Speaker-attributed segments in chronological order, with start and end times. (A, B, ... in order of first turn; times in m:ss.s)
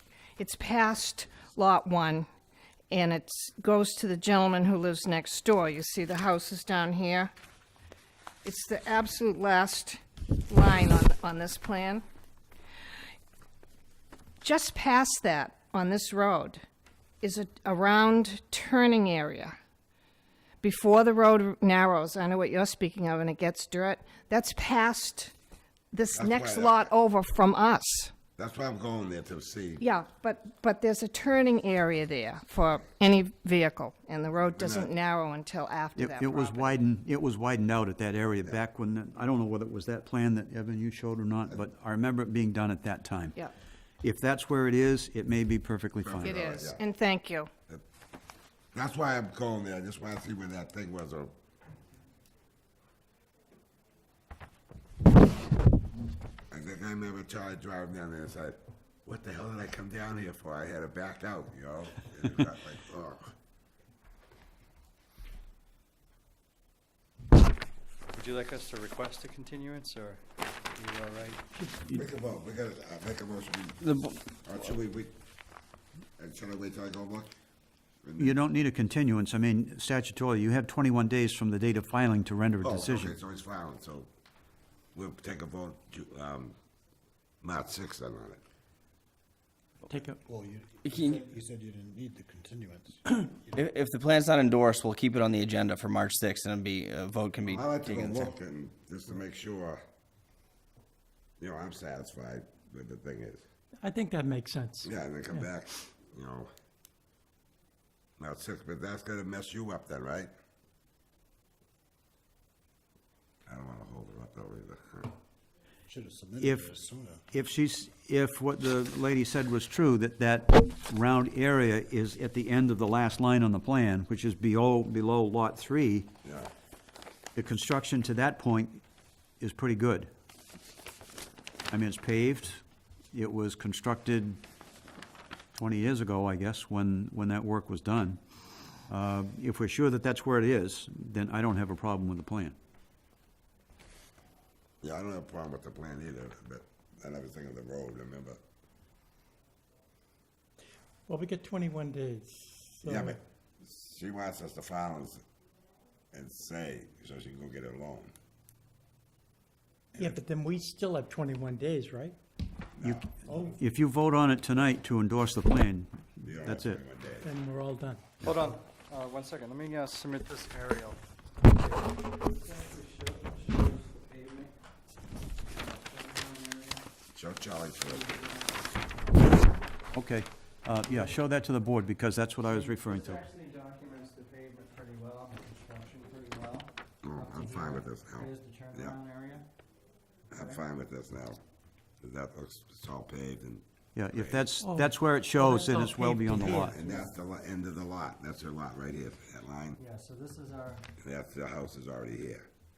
0:00.4-0:02.3 A
0:02.9-0:07.3 A
0:08.4-0:12.0 A
0:14.4-0:16.6 A
0:17.2-0:19.6 A
0:20.6-0:25.3 A
0:25.9-0:28.1 A
0:26.1-0:26.9 B
0:28.4-0:29.8 B
0:29.8-0:36.8 A
0:34.5-0:34.9 B
0:36.0-0:43.4 C
0:44.0-0:46.4 C
0:46.0-0:46.8 B
0:46.2-0:47.5 A
0:48.7-0:51.3 B
0:56.5-1:03.3 B
1:11.9-1:13.8 B
1:13.8-1:14.2 D
1:14.4-1:15.2 B
1:16.2-1:17.3 B
1:18.0-1:18.4 B
1:18.2-1:23.1 C
1:22.6-1:24.1 B
1:24.9-1:26.5 B
1:27.4-1:28.4 B
1:29.9-1:30.2 E
1:30.2-1:33.6 F
1:30.8-1:31.2 D
1:33.5-1:38.3 D
1:37.4-1:39.8 B
1:41.4-1:43.4 B
1:43.8-1:45.5 E
1:44.8-1:46.5 B
1:48.2-1:50.3 B
1:53.5-1:55.2 B
1:55.9-1:57.2 F
1:56.4-1:56.7 C
1:57.3-2:06.1 C
2:06.2-2:06.5 B
2:07.3-2:08.8 C
2:09.4-2:10.1 C
2:11.7-2:14.4 C
2:15.5-2:18.2 C
2:18.9-2:22.6 C
2:24.8-2:28.4 B
2:31.1-2:33.2 E
2:32.8-2:35.2 B
2:36.1-2:38.1 B
2:40.0-2:42.2 E
2:42.8-2:43.1 B
2:42.8-2:46.8 C
2:43.2-2:43.6 E
2:46.2-2:47.3 B
2:47.2-2:48.2 E
2:48.9-2:50.1 G
2:52.4-2:54.5 G
2:55.6-2:56.8 G
2:57.1-2:58.2 B
2:59.9-3:03.2 C
3:03.2-3:06.7 G
3:07.0-3:09.0 B
3:08.2-3:09.4 G
3:10.3-3:11.4 B
3:12.0-3:14.5 B
3:13.9-3:16.7 C
3:14.6-3:16.8 E
3:16.4-3:19.8 B
3:19.8-3:20.8 G
3:21.0-3:22.5 B